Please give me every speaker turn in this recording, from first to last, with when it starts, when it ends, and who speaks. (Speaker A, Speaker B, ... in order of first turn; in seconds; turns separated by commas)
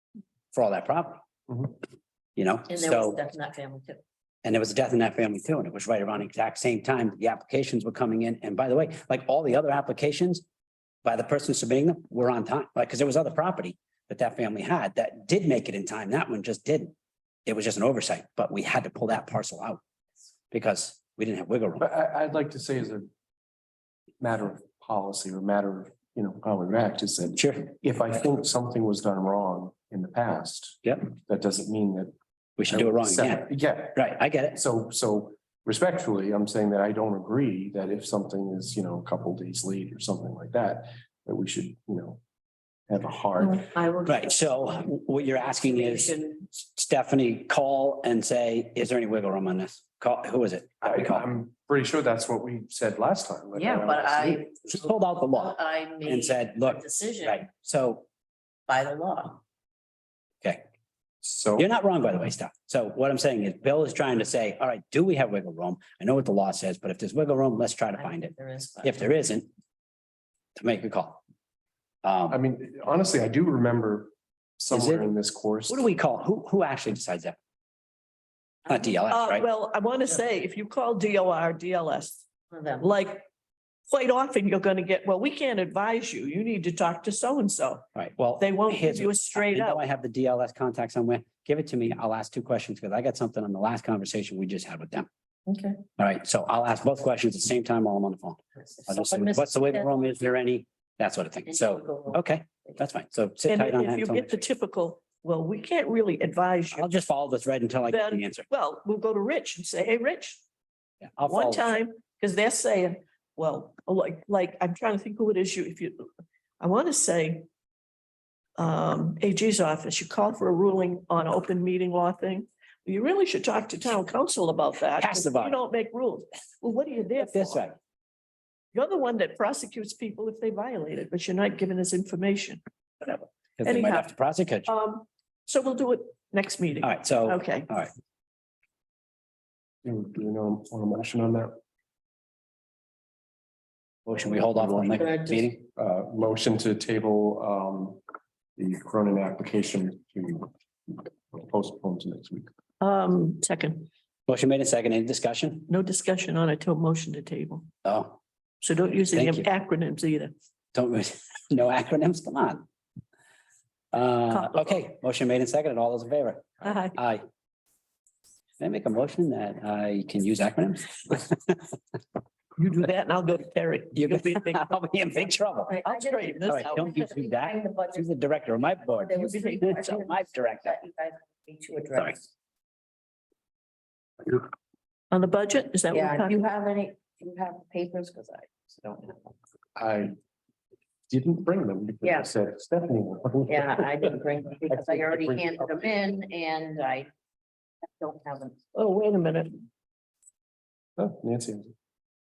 Speaker A: 0.5-1.2, Speaker A: 2.4-3.2, Speaker B: 2.7-4.0, Speaker A: 4.4-10.4, Speaker A: 11.0-16.9, Speaker A: 17.5-19.8, Speaker A: 20.5-21.9, Speaker C: 21.8-23.1, Speaker C: 24.2-32.1, Speaker A: 27.4-27.7, Speaker A: 32.6-34.6, Speaker C: 32.7-42.2, Speaker C: 42.9-43.7, Speaker B: 43.4-46.5, Speaker A: 44.1-51.3, Speaker C: 50.8-54.4, Speaker B: 53.5-57.5, Speaker A: 54.6-58.1, Speaker B: 58.7-59.4, Speaker C: 61.2-61.7, Speaker A: 61.6-69.5, Speaker B: 68.0-69.1, Speaker A: 70.6-71.2, Speaker A: 72.0-72.4, Speaker C: 72.3-75.9, Speaker A: 74.7-75.1, Speaker A: 75.7-77.4, Speaker B: 78.7-78.9, Speaker A: 78.7-79.5, Speaker D: 79.1-82.2, Speaker B: 82.5-82.9, Speaker D: 82.8-83.3, Speaker D: 83.9-87.8, Speaker A: 88.0-95.1, Speaker D: 88.4-89.8, Speaker B: 95.5-95.8, Speaker A: 96.0-104.5, Speaker B: 98.6-100.1, Speaker B: 101.5-102.8, Speaker D: 103.5-106.9, Speaker A: 106.7-108.5, Speaker D: 107.9-110.4, Speaker A: 111.0-111.8, Speaker D: 111.3-116.1, Speaker D: 116.6-117.5, Speaker D: 118.6-127.7, Speaker A: 125.0-125.6, Speaker A: 127.2-127.8, Speaker D: 128.7-134.1, Speaker A: 133.6-134.7, Speaker D: 134.7-137.7, Speaker A: 136.8-137.9, Speaker C: 139.8-141.6, Speaker A: 144.1-145.6, Speaker B: 144.9-145.5, Speaker C: 145.7-148.0, Speaker C: 148.6-152.5, Speaker D: 152.8-153.9, Speaker A: 154.3-155.7, Speaker D: 155.7-157.7, Speaker A: 157.8-158.2, Speaker D: 158.6-160.3, Speaker A: 159.1-159.5, Speaker A: 160.7-162.7, Speaker A: 163.9-167.2, Speaker D: 164.3-164.8, Speaker D: 166.6-167.0, Speaker A: 168.6-171.6, Speaker D: 172.6-174.7, Speaker A: 173.9-175.8, Speaker B: 175.7-178.1, Speaker D: 175.8-176.9, Speaker A: 176.4-180.8, Speaker B: 178.9-182.3, Speaker D: 179.2-179.6, Speaker D: 185.1-186.4, Speaker B: 185.9-189.3, Speaker C: 189.8-190.1, Speaker C: 191.1-194.1, Speaker B: 192.0-192.3, Speaker B: 193.5-197.1, Speaker C: 194.7-195.8, Speaker B: 198.0-198.6, Speaker D: 198.7-199.6, Speaker C: 201.0-201.7